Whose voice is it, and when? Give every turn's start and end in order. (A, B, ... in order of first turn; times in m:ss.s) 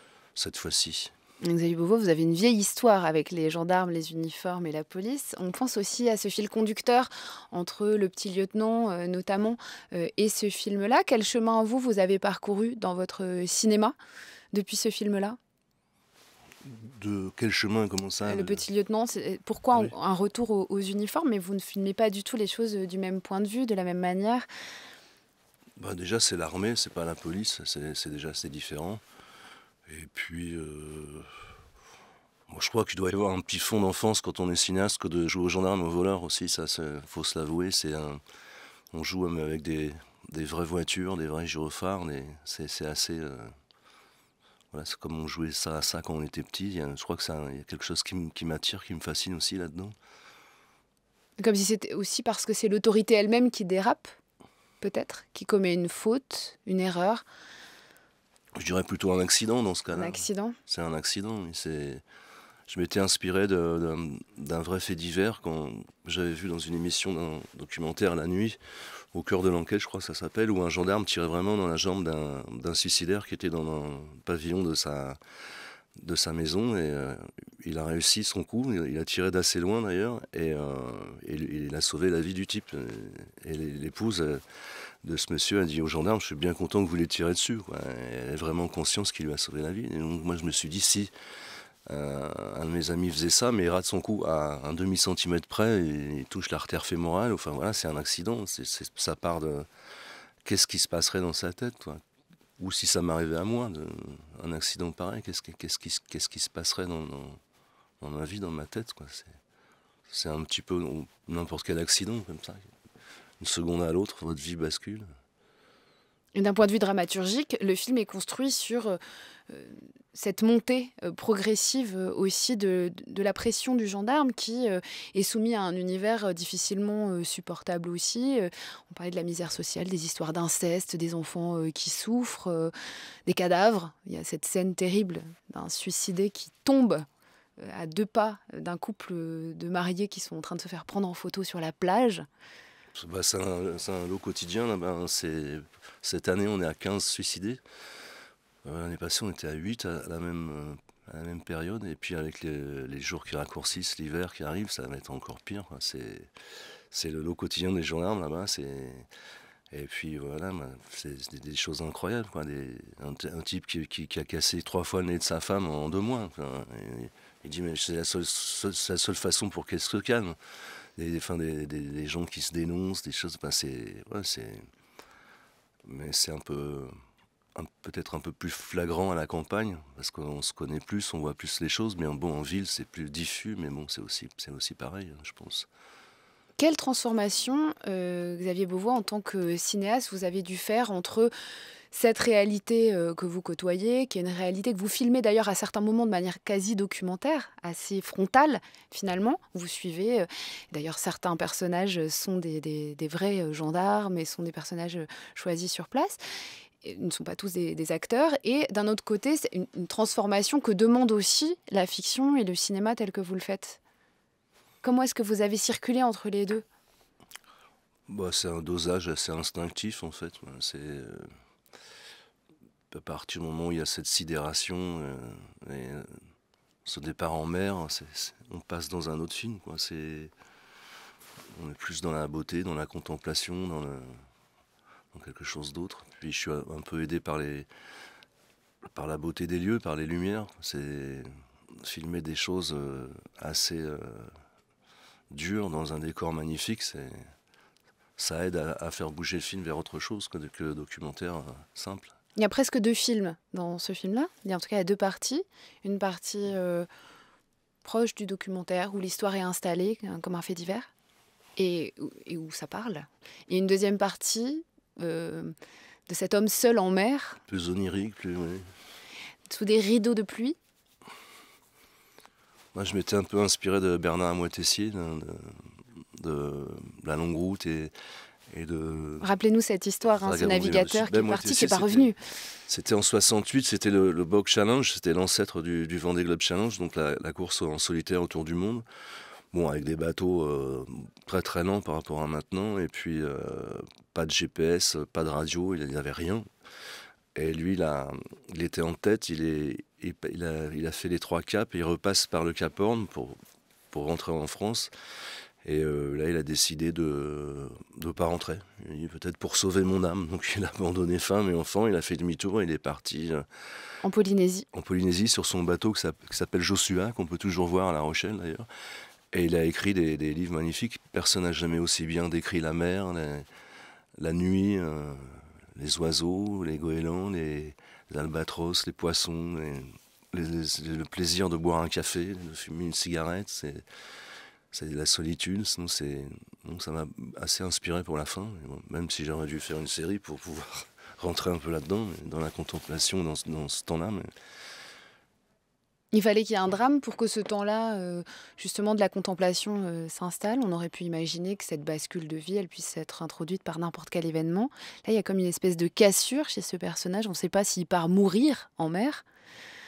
0:00.3-0:01.1 A
0:01.4-0:13.9 B
0:14.5-0:15.4 B
0:16.6-0:18.6 A
0:18.2-0:24.5 B
0:25.8-0:29.0 A
0:29.8-0:31.3 A
0:32.5-0:38.2 A
0:38.9-0:43.5 A
0:44.7-0:50.0 A
0:51.4-0:54.1 B
0:54.8-0:57.2 B
0:58.5-1:02.0 A
0:59.9-1:00.6 B
1:02.7-1:08.6 A
1:09.1-1:15.2 A
1:16.0-1:24.4 A
1:25.0-1:31.1 A
1:31.8-1:39.7 A
1:40.4-1:42.0 A
1:42.6-1:47.4 A
1:48.0-1:49.4 A
1:50.1-1:52.7 A
1:53.4-1:55.0 A
1:56.3-2:12.7 B
2:13.3-2:17.0 B
2:17.6-2:22.2 B
2:22.9-2:27.6 A
2:28.6-2:36.3 A
2:36.9-2:39.1 A
2:39.7-2:50.4 A
2:51.0-2:54.7 A
2:55.8-2:56.9 A
2:57.5-3:05.7 A
3:06.6-3:11.3 B
3:11.9-3:26.2 B
3:26.8-3:33.8 B
3:34.8-3:36.6 B
3:38.1-3:41.3 A
3:42.9-3:46.1 A
3:46.8-3:50.3 A
3:51.5-3:54.1 A
3:55.1-3:57.7 A
3:58.9-4:04.3 A
4:05.3-4:07.3 A
4:08.2-4:12.1 A
4:12.4-4:16.9 B
4:17.8-4:20.9 B
4:21.6-4:25.5 B
4:26.1-4:27.4 B
4:27.5-4:28.7 A
4:29.5-4:30.6 B
4:32.7-4:37.9 A
4:38.5-4:39.3 A
4:39.2-4:42.2 B
4:40.1-4:42.1 A
4:42.7-4:48.8 A
4:49.5-4:56.5 A
4:57.3-5:03.4 A
5:03.9-5:04.9 A
5:05.6-5:13.4 A
5:14.0-5:14.7 B
5:14.7-5:18.7 A
5:19.3-5:23.5 A
5:24.2-5:33.8 A
5:34.7-5:44.3 A
5:46.1-5:59.2 B